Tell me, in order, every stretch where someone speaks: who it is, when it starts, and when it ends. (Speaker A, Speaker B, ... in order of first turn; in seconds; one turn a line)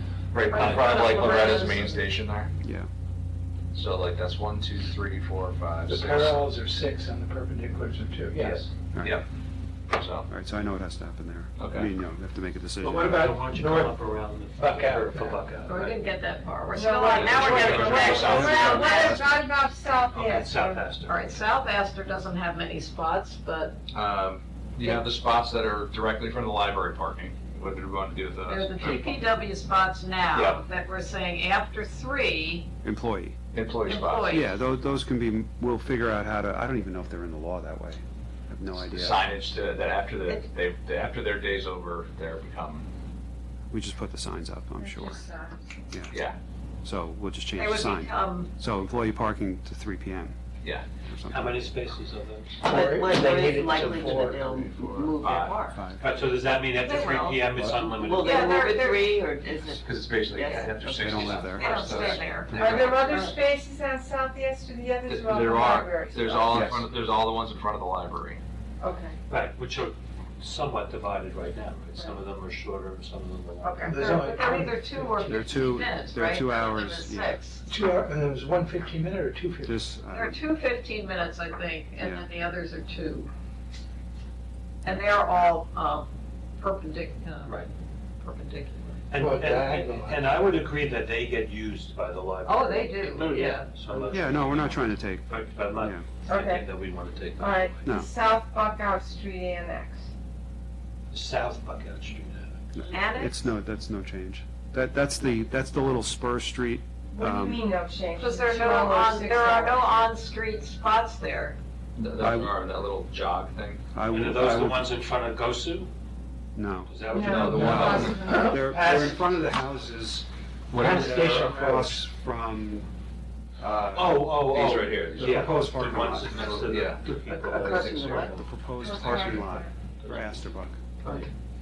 Speaker A: 0.3-2.5
Speaker B: 0.5-2.0
Speaker C: 0.7-1.8
Speaker D: 2.6-2.9
Speaker A: 3.7-6.5
Speaker E: 5.9-8.7
Speaker A: 8.4-9.2
Speaker D: 8.9-9.2
Speaker A: 9.9-10.3
Speaker D: 10.3-13.4
Speaker A: 11.6-11.9
Speaker F: 12.8-15.9
Speaker E: 13.0-14.0
Speaker E: 14.5-15.5
Speaker C: 15.7-19.2
Speaker B: 16.7-20.9
Speaker A: 17.1-19.2
Speaker D: 18.0-19.3
Speaker F: 20.1-21.2
Speaker C: 21.1-23.8
Speaker A: 23.9-29.0
Speaker C: 28.5-32.6
Speaker A: 30.3-30.6
Speaker D: 32.8-33.4
Speaker A: 33.5-34.4
Speaker C: 33.9-34.5
Speaker D: 34.2-39.2
Speaker A: 38.7-42.9
Speaker D: 43.7-45.2
Speaker B: 44.8-45.6
Speaker A: 46.1-46.4
Speaker D: 46.8-50.4
Speaker C: 47.5-48.5
Speaker D: 51.0-51.7
Speaker F: 51.3-52.7
Speaker G: 52.6-55.7
Speaker E: 52.6-54.5
Speaker A: 54.4-55.5
Speaker C: 55.2-55.7
Speaker D: 55.7-56.1
Speaker F: 55.9-58.4
Speaker C: 56.7-57.5
Speaker G: 57.8-60.8
Speaker C: 58.2-59.2
Speaker B: 58.2-59.1
Speaker A: 59.7-63.2
Speaker D: 60.9-61.7
Speaker C: 61.4-63.3
Speaker B: 62.5-66.7
Speaker A: 65.1-68.4
Speaker D: 66.5-66.8
Speaker B: 68.8-69.2
Speaker F: 69.3-73.9
Speaker B: 73.6-74.0
Speaker C: 73.8-77.6
Speaker E: 73.9-75.3
Speaker D: 75.2-77.4
Speaker E: 77.7-79.8
Speaker D: 79.6-80.4
Speaker C: 80.1-83.3
Speaker D: 82.0-82.3
Speaker C: 84.8-87.6
Speaker F: 87.4-87.7
Speaker C: 88.2-89.0
Speaker F: 89.1-97.9
Speaker E: 89.2-90.3
Speaker C: 92.5-93.7
Speaker D: 94.1-96.0
Speaker B: 96.3-96.7
Speaker B: 97.4-100.0
Speaker D: 97.8-98.1
Speaker F: 101.1-102.8
Speaker D: 102.7-107.6
Speaker C: 102.9-103.5
Speaker B: 107.2-109.8
Speaker C: 108.2-111.6
Speaker A: 112.0-113.8
Speaker D: 112.2-112.5
Speaker D: 113.9-114.9
Speaker F: 114.0-115.9
Speaker D: 116.5-116.9
Speaker F: 116.8-118.1
Speaker B: 117.1-118.6
Speaker A: 117.2-118.3
Speaker D: 117.5-122.9
Speaker E: 118.3-119.0
Speaker A: 120.7-121.5
Speaker E: 120.8-122.1
Speaker D: 123.6-124.3
Speaker F: 123.9-128.4
Speaker A: 124.4-125.6
Speaker D: 125.2-126.5
Speaker A: 126.3-127.0
Speaker G: 127.3-128.3
Speaker D: 127.6-130.9
Speaker B: 128.8-129.7
Speaker F: 130.0-130.4
Speaker F: 131.0-131.3